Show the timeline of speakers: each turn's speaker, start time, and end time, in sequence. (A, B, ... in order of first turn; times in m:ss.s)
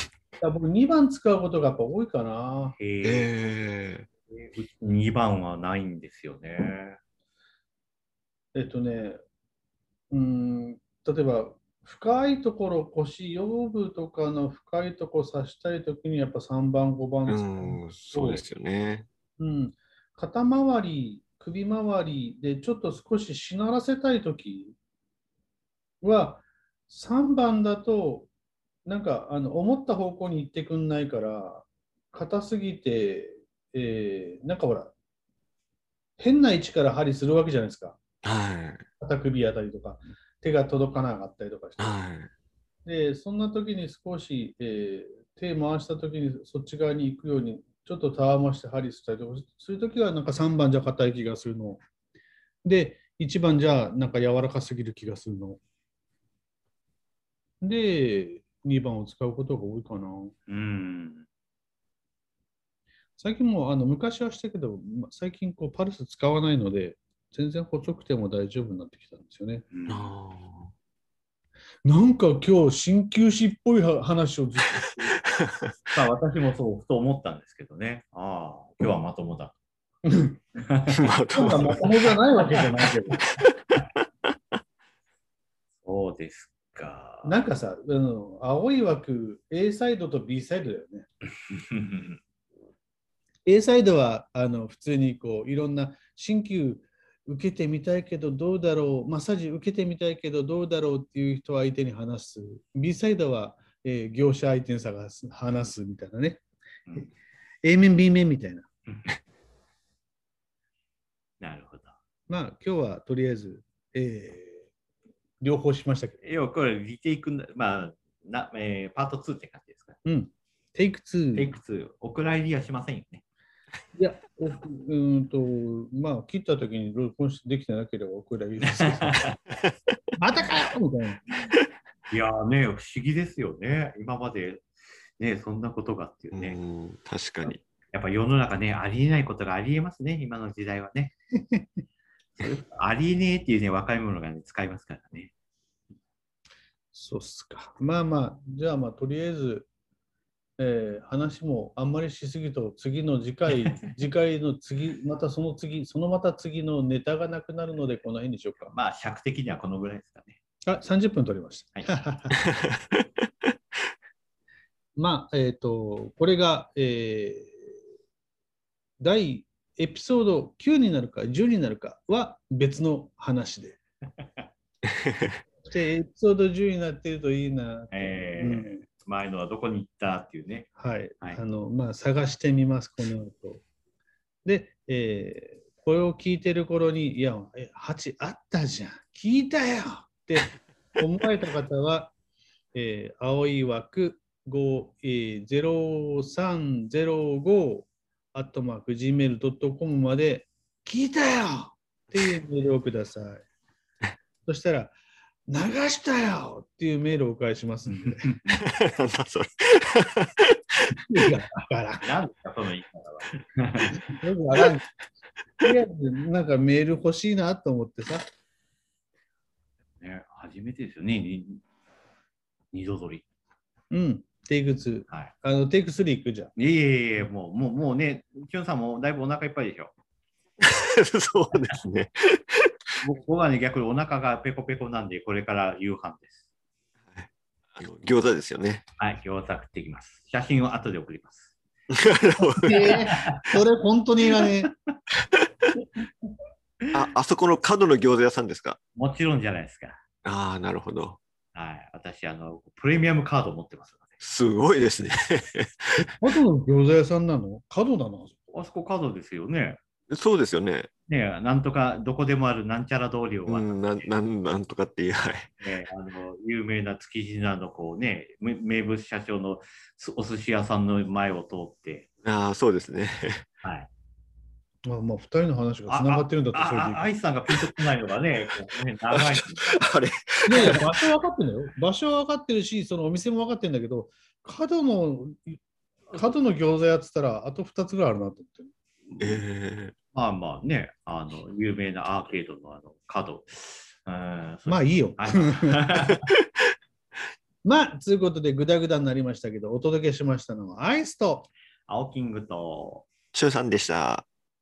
0:00.4-0:02.8 A
0:02.8-0:03.3 B
0:03.0-0:04.1 C
0:04.3-0:07.0 B
0:08.5-0:09.2 A
0:10.1-0:18.4 A
0:17.3-0:19.1 C
0:19.4-0:24.8 A
0:26.0-0:28.3 A
0:28.8-0:34.9 A
0:36.2-0:38.0 A
0:38.2-0:38.9 C
0:39.0-0:42.0 A
0:41.8-0:42.3 C
0:42.8-0:51.8 A
0:52.6-0:55.6 A
0:57.6-1:00.3 A
1:00.5-1:01.2 B
1:03.2-1:09.6 A
1:09.7-1:10.1 B
1:09.9-1:10.7 C
1:11.8-1:15.2 A
1:15.3-1:15.8 C
1:15.9-1:19.6 B
1:20.0-1:20.4 A
1:20.6-1:21.1 B
1:20.9-1:22.2 C
1:21.3-1:23.2 A
1:23.4-1:24.3 C
1:25.8-1:27.4 B
1:27.2-1:31.1 A
1:31.5-1:32.2 B
1:33.5-1:46.4 A
1:47.6-1:48.7 A
1:51.4-1:52.0 B
1:52.3-1:54.7 A
1:55.4-1:56.2 A
1:56.2-2:00.0 B
2:00.0-2:01.5 A
2:01.4-2:03.2 B
2:04.0-2:09.3 A
2:08.6-2:09.4 B
2:09.6-2:10.0 C
2:10.2-2:11.2 A
2:12.1-2:14.6 B
2:15.2-2:16.6 B
2:16.3-2:17.6 C
2:17.4-2:21.1 B
2:21.4-2:21.7 A
2:22.4-2:25.3 B
2:26.9-2:29.7 A
2:30.6-2:38.7 A
2:38.7-2:40.4 B
2:40.7-2:42.4 A
2:42.4-2:43.5 C
2:45.0-2:47.6 A
2:49.0-2:53.8 A
2:54.9-2:55.4 C
2:55.7-2:58.8 A
2:57.9-3:01.4 B
3:00.8-3:03.6 A
3:04.4-3:12.1 A
3:12.7-3:23.4 A
3:24.4-3:25.0 A
3:25.5-3:28.3 A
3:27.9-3:28.6 B
3:28.6-3:30.9 C
3:30.9-3:32.1 A
3:32.0-3:34.0 B
3:33.9-3:34.8 A
3:35.6-3:38.3 A
3:40.0-3:41.6 B
3:42.7-3:43.2 B
3:43.9-3:46.5 A
3:46.6-3:49.9 B
3:50.6-3:53.0 C
3:53.0-3:56.4 B
3:57.1-3:58.8 C
3:59.0-4:01.6 B
4:01.9-4:03.2 C
4:02.6-4:03.4 B
4:02.6-4:04.7 A
4:06.9-4:08.8 C
4:09.0-4:10.0 B
4:10.2-4:11.2 C
4:11.5-4:14.2 B
4:14.2-4:16.1 C
4:16.0-4:18.4 A
4:18.5-4:19.8 B
4:20.1-4:20.9 C
4:21.1-4:24.1 B
4:23.5-4:25.6 C
4:25.6-4:32.1 B
4:32.2-4:33.5 C
4:33.6-4:33.9 B
4:34.8-4:37.1 A
4:35.9-4:39.8 B
4:39.1-4:40.9 C
4:40.5-4:48.7 A
4:40.5-4:40.8 B
4:49.1-4:49.4 B
4:49.2-4:49.9 C
4:50.1-4:56.3 B
4:54.7-4:56.1 A
4:57.6-5:01.5 A
5:01.9-5:03.0 B
5:03.3-5:04.2 C